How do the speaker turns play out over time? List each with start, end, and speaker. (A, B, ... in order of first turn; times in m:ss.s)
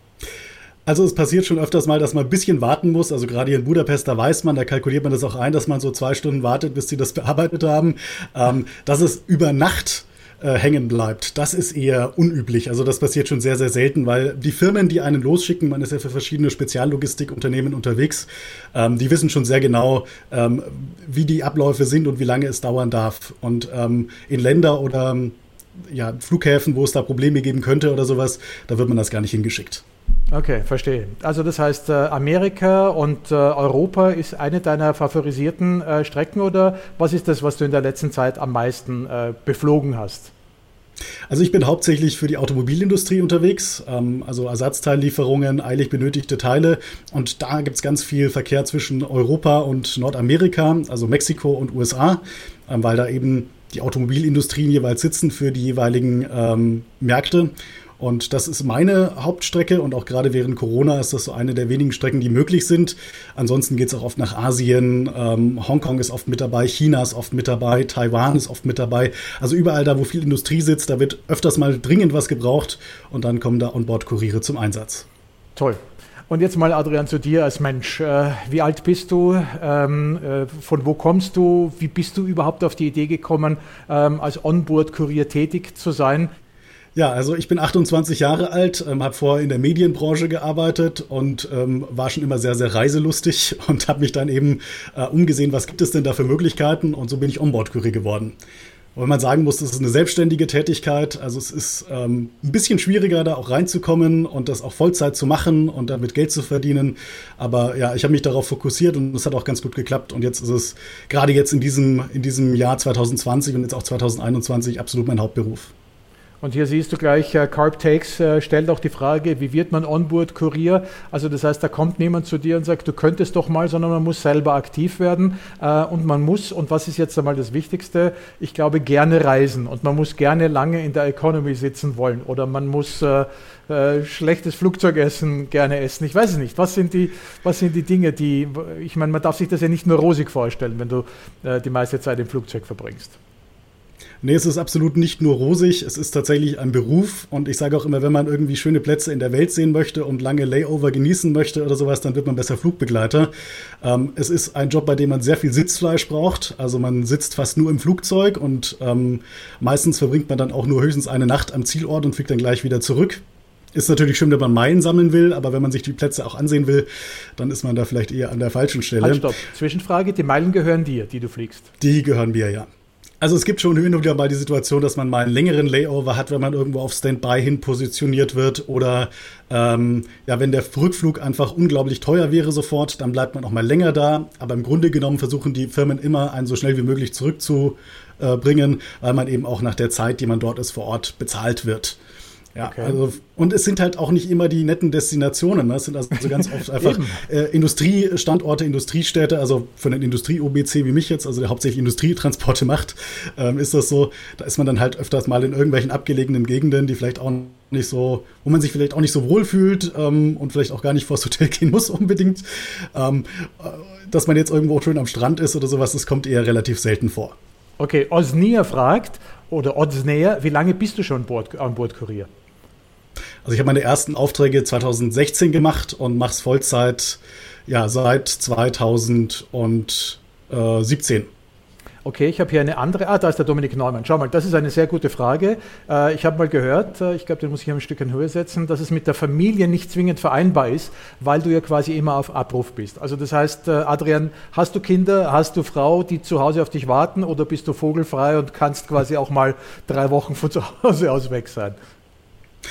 0:00.9-0:29.8 A
0:30.3-0:40.3 B
0:41.3-1:15.1 A
1:15.6-1:26.3 B
1:27.0-1:38.4 A
1:39.0-1:55.7 A
1:56.4-2:23.2 B
2:24.2-2:43.2 A
2:43.7-2:49.3 A
2:49.0-2:51.7 B
2:51.8-2:52.7 A
2:53.2-3:12.0 A
3:12.6-3:37.4 A
3:12.6-3:13.0 B
3:16.8-3:17.2 B
3:37.8-3:42.3 B
3:43.4-3:51.3 A
3:52.0-4:11.8 B